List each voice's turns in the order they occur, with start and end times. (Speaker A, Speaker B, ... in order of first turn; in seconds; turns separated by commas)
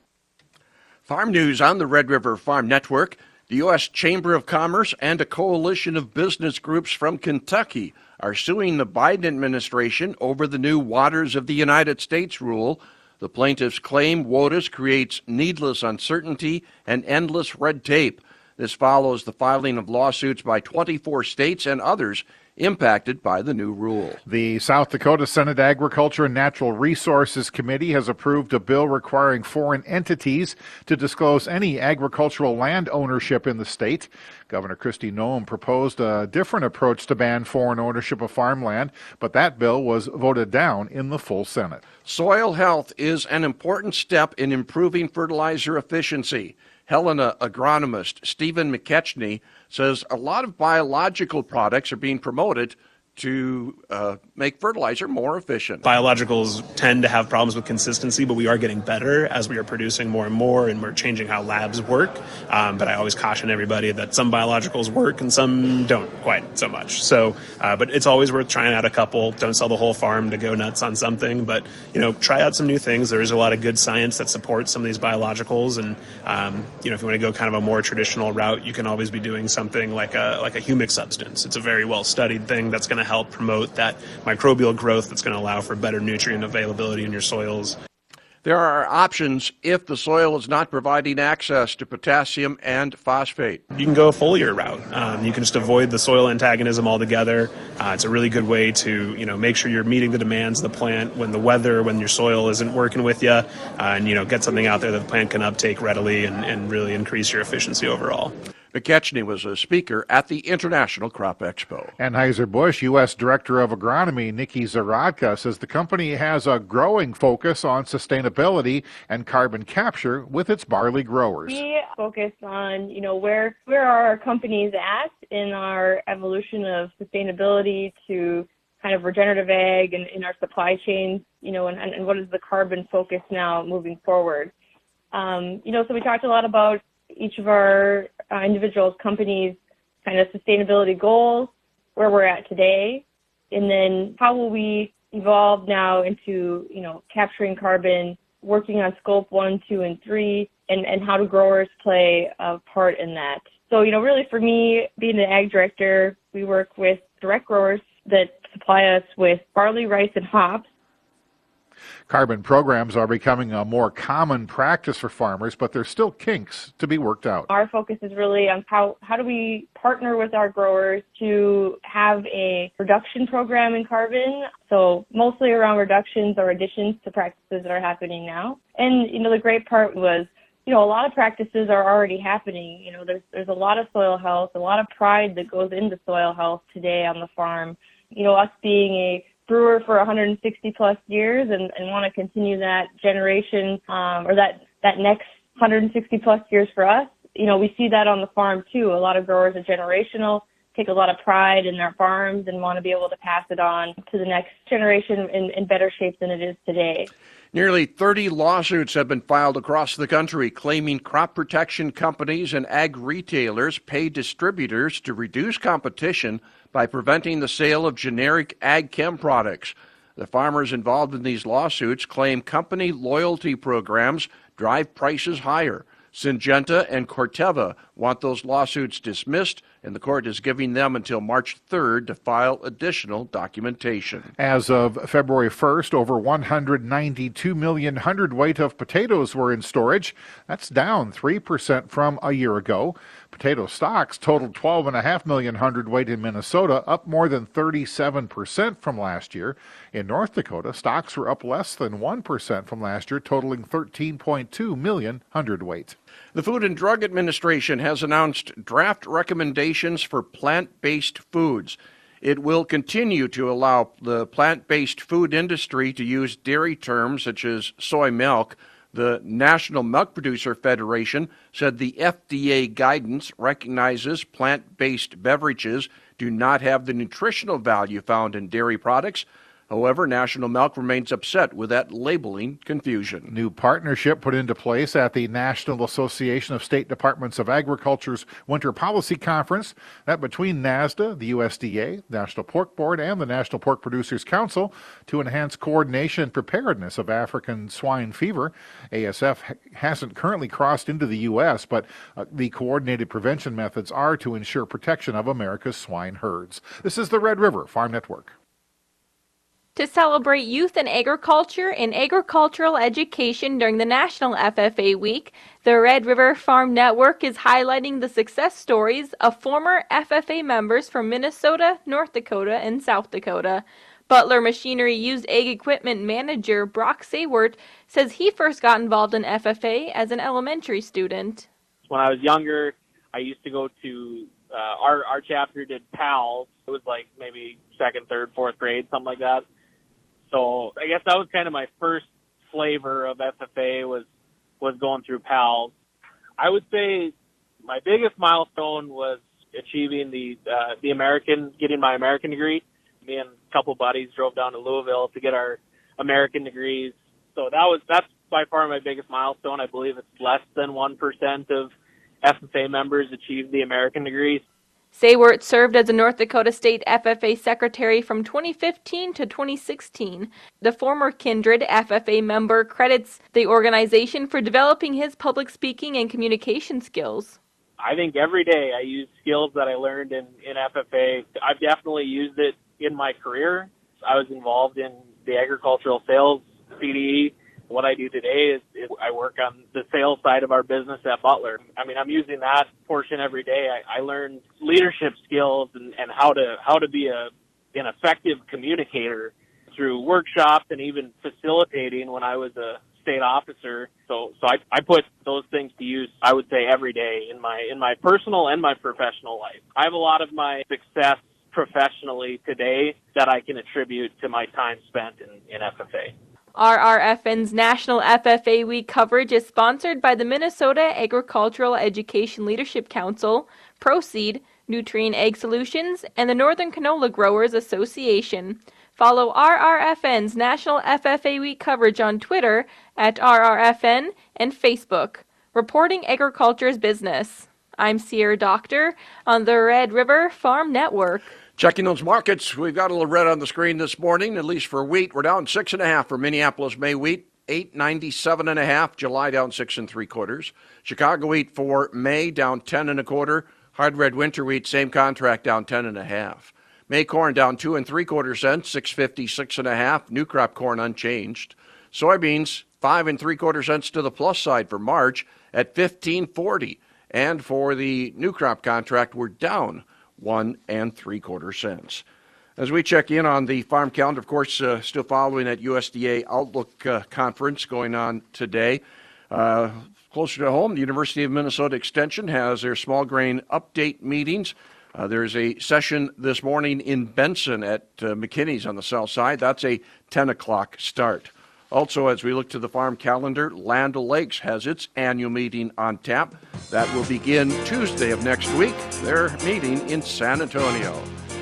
Speaker A: 1.1-24.2, Speaker B: 24.3-41.8, Speaker A: 42.0-55.9, Speaker C: 55.8-87.8, Speaker A: 88.4-93.6, Speaker C: 93.8-108.3, Speaker A: 108.7-111.9, Speaker B: 112.0-121.6, Speaker D: 121.5-134.5, Speaker D: 135.1-160.7, Speaker B: 162.1-167.5, Speaker D: 167.5-207.1, Speaker A: 207.5-234.3, Speaker B: 234.4-255.9, Speaker A: 256.3-283.3, Speaker B: 283.3-308.3, Speaker E: 309.8-331.5, Speaker F: 331.9-339.4, Speaker F: 340.3-344.1, Speaker F: 344.6-345.7, Speaker F: 346.4-364.4, Speaker E: 364.9-377.4, Speaker F: 377.8-416.1, Speaker E: 416.6-441.3, Speaker A: 441.6-472.0, Speaker A: 472.6-501.1